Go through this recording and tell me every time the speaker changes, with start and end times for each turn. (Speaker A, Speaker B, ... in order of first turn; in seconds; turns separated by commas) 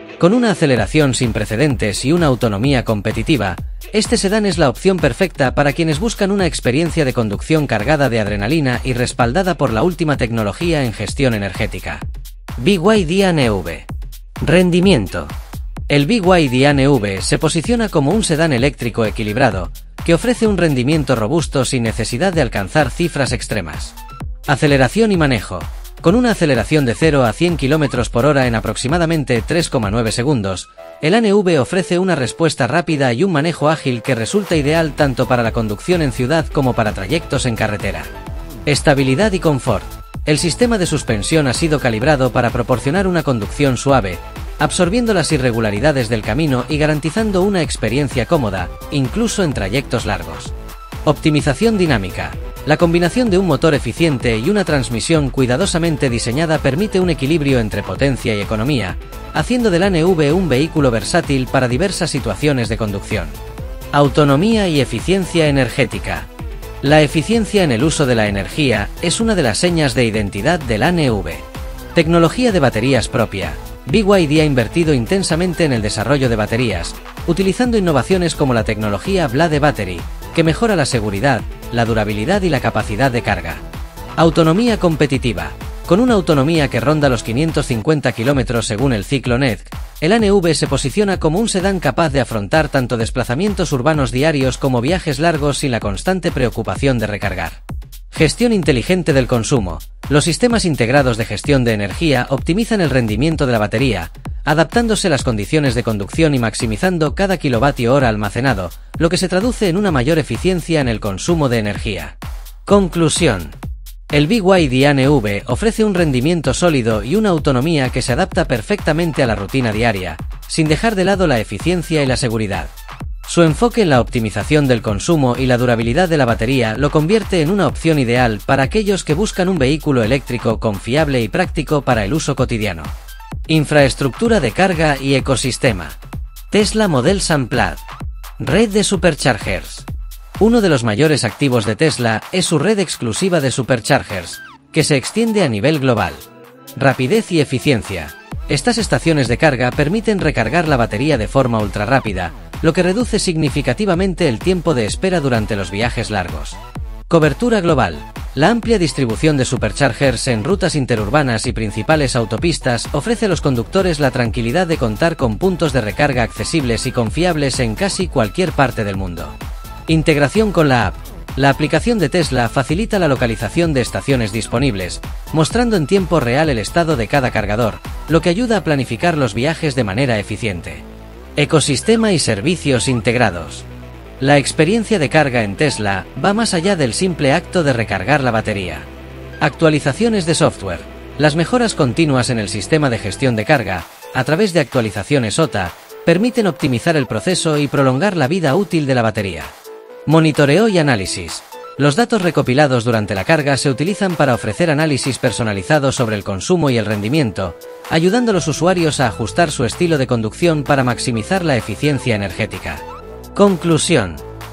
Speaker A: 0.2-12.1, Speaker A: 12.6-13.9, Speaker A: 14.4-15.3, Speaker A: 15.9-24.0, Speaker A: 24.5-38.1, Speaker A: 38.7-50.5, Speaker A: 51.0-63.4, Speaker A: 63.9-66.3, Speaker A: 66.8-83.6, Speaker A: 84.2-97.6, Speaker A: 98.1-113.6, Speaker A: 114.1-122.7, Speaker A: 123.3-132.9, Speaker A: 133.5-136.0, Speaker A: 136.5-137.8, Speaker A: 138.4-139.9, Speaker A: 140.4-146.2, Speaker A: 146.8-156.6, Speaker A: 157.1-169.3, Speaker A: 169.9-180.8, Speaker A: 181.4-183.7, Speaker A: 184.2-188.9, Speaker A: 189.4-199.5, Speaker A: 200.1-214.2